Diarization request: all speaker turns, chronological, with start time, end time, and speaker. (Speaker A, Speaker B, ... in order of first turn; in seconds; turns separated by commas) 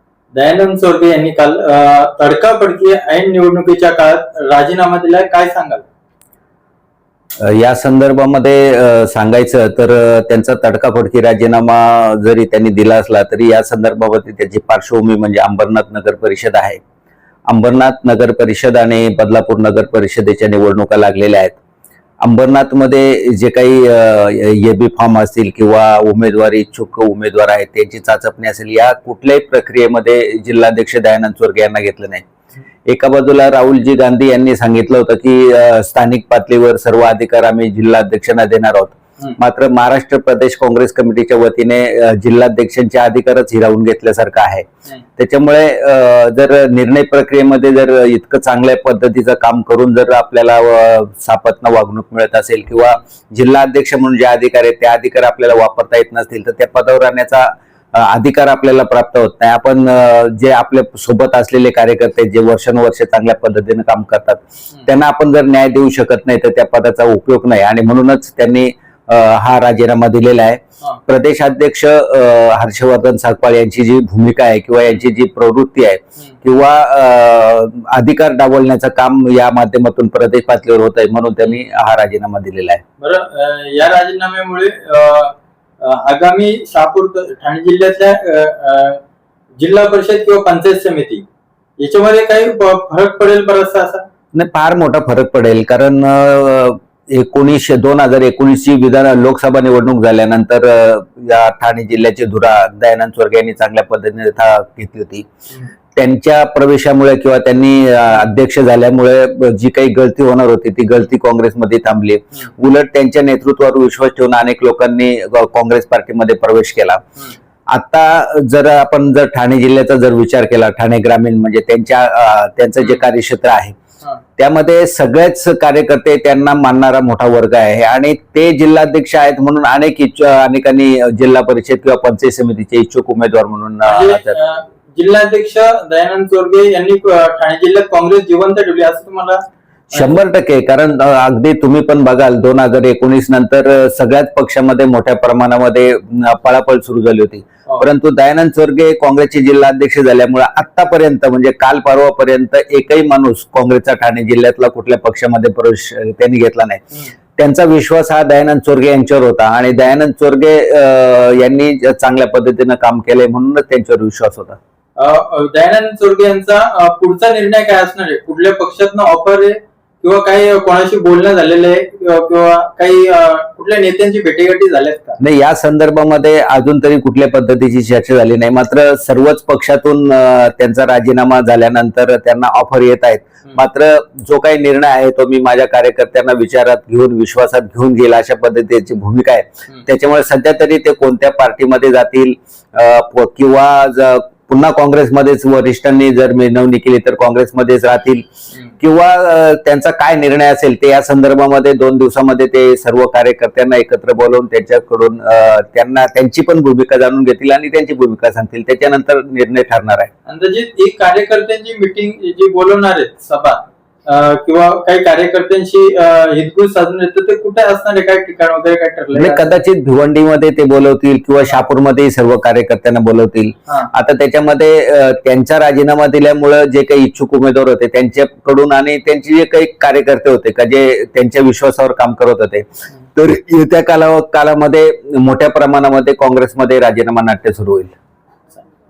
Speaker A: 0.3-5.8, Speaker B: 7.4-16.8, Speaker B: 17.5-21.6, Speaker B: 22.2-32.2, Speaker B: 32.9-82.8, Speaker A: 83.0-89.0, Speaker A: 89.6-91.2, Speaker A: 91.8-94.0, Speaker B: 94.3-105.3, Speaker B: 105.9-117.0, Speaker B: 117.7-123.8, Speaker B: 124.4-134.4, Speaker A: 133.8-140.2, Speaker B: 139.9-156.8, Speaker B: 157.3-164.6, Speaker A: 165.0-175.2, Speaker B: 175.2-198.2, Speaker B: 198.8-210.1, Speaker A: 210.2-219.6, Speaker B: 219.1-237.9